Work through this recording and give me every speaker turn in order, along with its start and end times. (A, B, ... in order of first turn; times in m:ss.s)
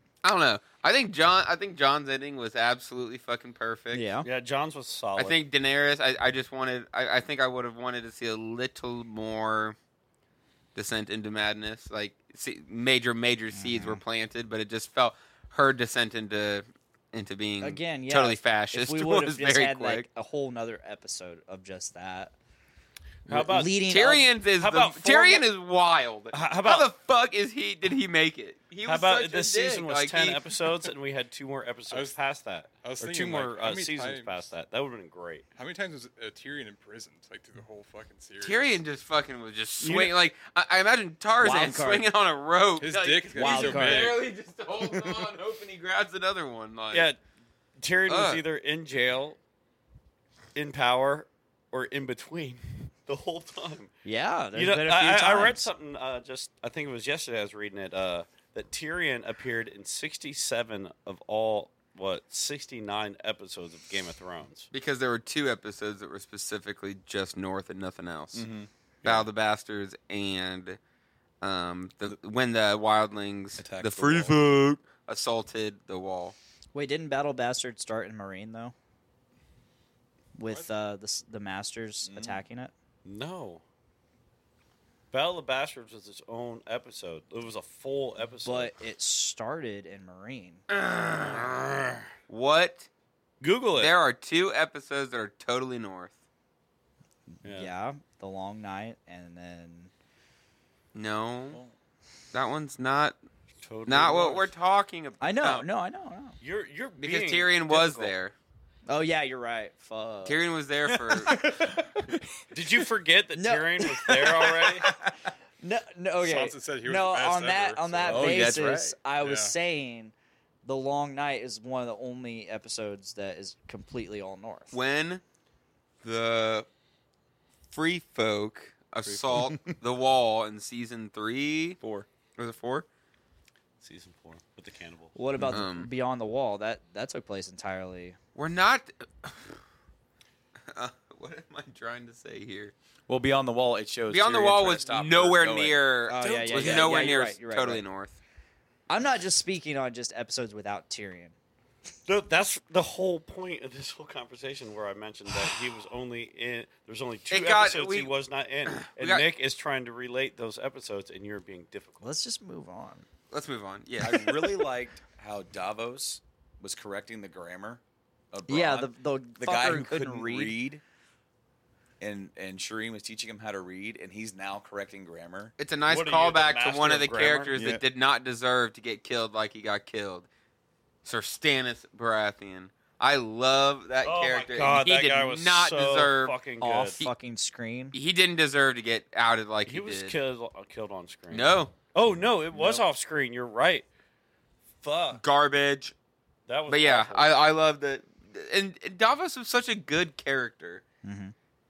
0:00.2-0:04.0 A
0:03.9-0:04.3 B
0:04.2-0:05.4 C
0:05.2-0:09.8 A
0:10.7-0:20.0 A
0:13.5-0:14.0 B
0:17.6-0:22.3 B
0:23.3-0:23.8 C
0:23.3-0:24.2 B
0:23.9-0:30.5 A
0:24.6-0:25.4 C
0:26.3-0:26.9 C
0:28.8-0:35.4 C
0:31.9-0:32.2 D
0:32.8-0:34.3 D
0:35.6-0:38.8 D
0:38.4-0:47.1 A
0:39.8-0:40.2 C
0:41.4-0:42.1 B
0:42.8-0:44.2 D
0:43.3-0:44.2 B
0:46.9-0:47.2 C
0:47.8-0:49.4 C
0:48.1-0:48.4 A
0:50.5-0:53.9 C
0:54.0-0:55.7 B
0:54.5-1:04.7 C
1:04.7-1:08.4 A
1:08.3-1:08.7 E
1:09.0-1:10.8 A
1:11.4-1:16.4 A
1:13.6-1:14.4 E
1:16.7-1:18.7 B
1:20.4-1:22.7 B
1:22.0-1:22.4 E
1:23.0-1:23.6 C
1:25.1-1:28.7 C
1:28.4-1:30.6 B
1:30.7-1:32.9 A
1:33.4-1:33.9 C
1:33.8-1:36.2 A
1:37.4-1:39.9 B
1:37.4-1:37.7 C
1:40.9-1:41.6 A
1:42.3-1:43.2 A
1:43.6-1:44.5 C
1:43.9-1:45.6 A
1:45.2-1:46.4 B
1:46.4-1:48.1 C
1:47.0-1:48.3 A
1:48.9-1:50.4 B
1:50.2-1:51.3 A
1:51.1-1:51.8 E
1:51.2-1:52.1 B
1:52.5-1:54.9 C
1:53.4-2:00.1 B
1:56.2-1:58.6 D
1:58.1-1:59.0 E
1:59.2-1:59.5 D
2:00.6-2:04.8 B
2:04.7-2:05.2 A
2:06.0-2:06.7 A
2:07.7-2:11.8 A
2:09.0-2:09.7 E
2:11.8-2:12.1 E
2:12.4-2:12.8 A
2:13.8-2:15.1 C
2:15.1-2:18.2 B
2:15.5-2:15.9 A
2:18.3-2:19.6 A
2:20.7-2:22.7 A
2:23.1-2:25.8 E
2:24.1-2:28.2 A
2:26.1-2:27.8 B
2:26.5-2:27.0 E
2:28.9-2:31.3 B
2:32.1-2:42.0 C
2:37.3-2:38.1 A
2:38.7-2:39.2 A
2:42.0-2:43.0 B
2:43.3-2:44.7 A
2:44.0-2:47.8 E
2:48.3-2:50.8 E
2:48.5-2:50.6 B
2:52.0-2:55.5 E
2:55.6-3:00.3 A
2:55.9-2:57.6 C
2:57.5-2:57.8 E
3:01.0-3:06.4 A
3:04.0-3:07.0 C
3:06.6-3:07.9 B
3:07.9-3:10.2 A
3:09.6-3:13.8 C
3:11.3-3:11.7 A
3:12.5-3:12.8 E
3:14.8-3:15.2 C
3:15.1-3:15.9 A
3:16.5-3:17.4 C
3:16.7-3:20.8 A
3:21.0-3:21.3 B